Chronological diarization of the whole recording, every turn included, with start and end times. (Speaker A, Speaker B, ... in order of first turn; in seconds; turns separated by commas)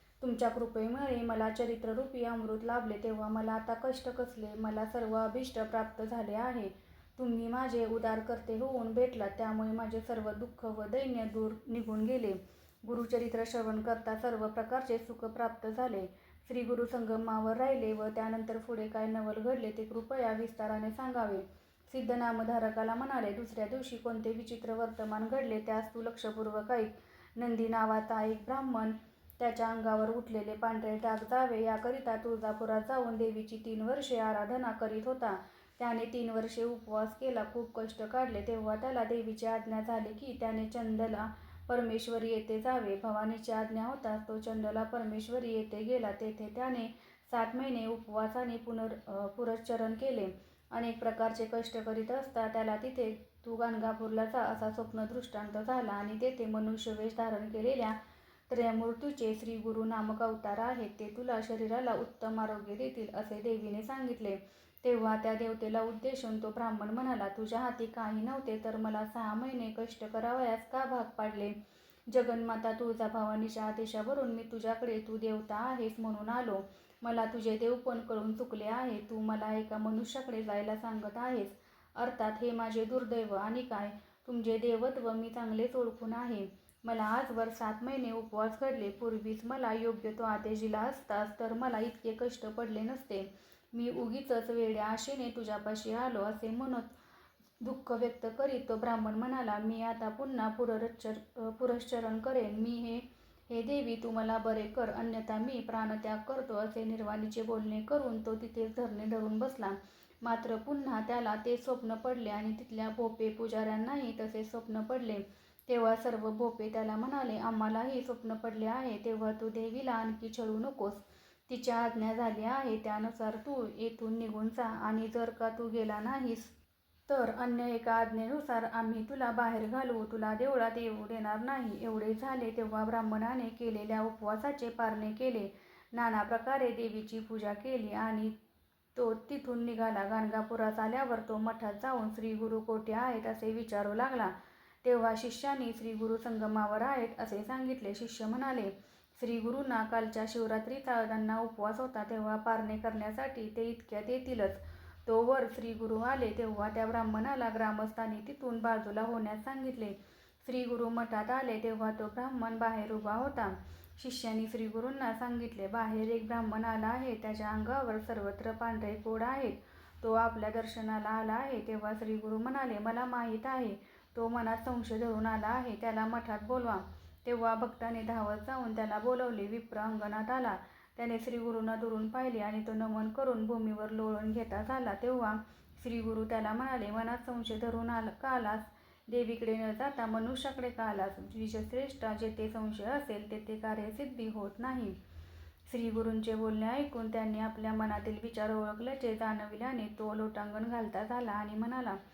Speaker A: 0.2-58.0, Speaker A: 58.5-71.5, Speaker A: 72.1-97.0, Speaker A: 97.6-126.5, Speaker A: 127.1-138.3, Speaker A: 138.9-195.0, Speaker A: 195.7-202.0